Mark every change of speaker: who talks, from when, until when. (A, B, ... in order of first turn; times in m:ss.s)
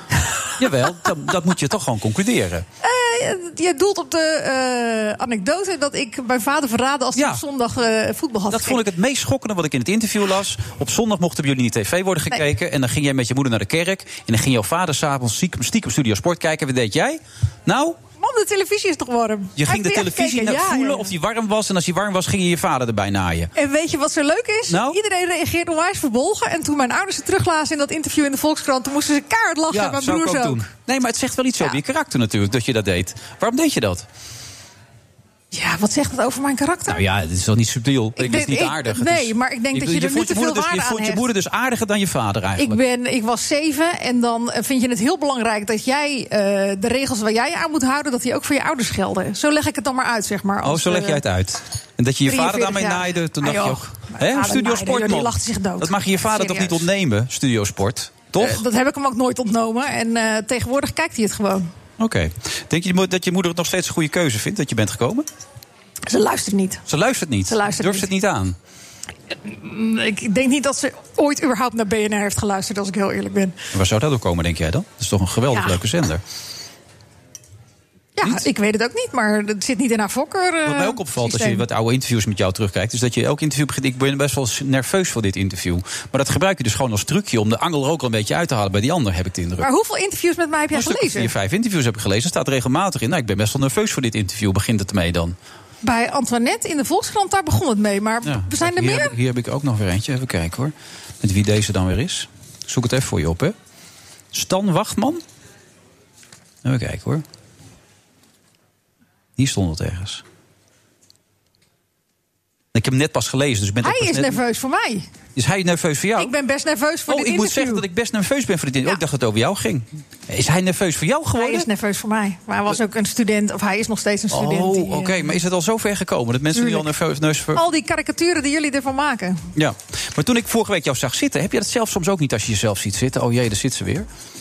0:00.6-0:02.6 A
0:02.8-0:08.8 B
0:07.1-0:07.4 A
0:08.5-0:18.0 A
0:18.2-0:21.1 B
0:19.6-0:23.5 A
0:23.6-0:30.6 B
0:24.7-0:25.0 A
0:29.7-0:34.0 A
0:35.5-0:37.0 B
0:36.9-0:42.8 A
0:38.2-0:41.2 B
0:42.6-0:51.2 B
0:50.6-0:58.6 A
0:52.3-0:56.8 B
0:58.4-1:01.7 B
1:02.0-1:05.3 A
1:06.1-1:06.8 B
1:06.9-1:08.6 A
1:07.5-1:08.1 B
1:09.4-1:13.5 B
1:13.7-1:16.2 A
1:18.2-1:21.6 B
1:20.6-1:29.7 A
1:29.6-1:31.3 B
1:30.7-1:35.4 A
1:35.8-1:39.1 B
1:38.2-1:43.5 A
1:44.3-1:45.2 A
1:46.6-1:47.2 A
1:49.4-1:50.2 A
1:52.7-1:54.4 A
1:53.8-1:55.1 B
1:55.3-1:56.3 A
1:56.2-1:57.8 B
1:57.1-2:01.7 A
2:01.4-2:05.3 B
2:04.3-2:07.6 A
2:06.5-2:06.9 B
2:07.5-2:09.4 B
2:09.6-2:14.1 A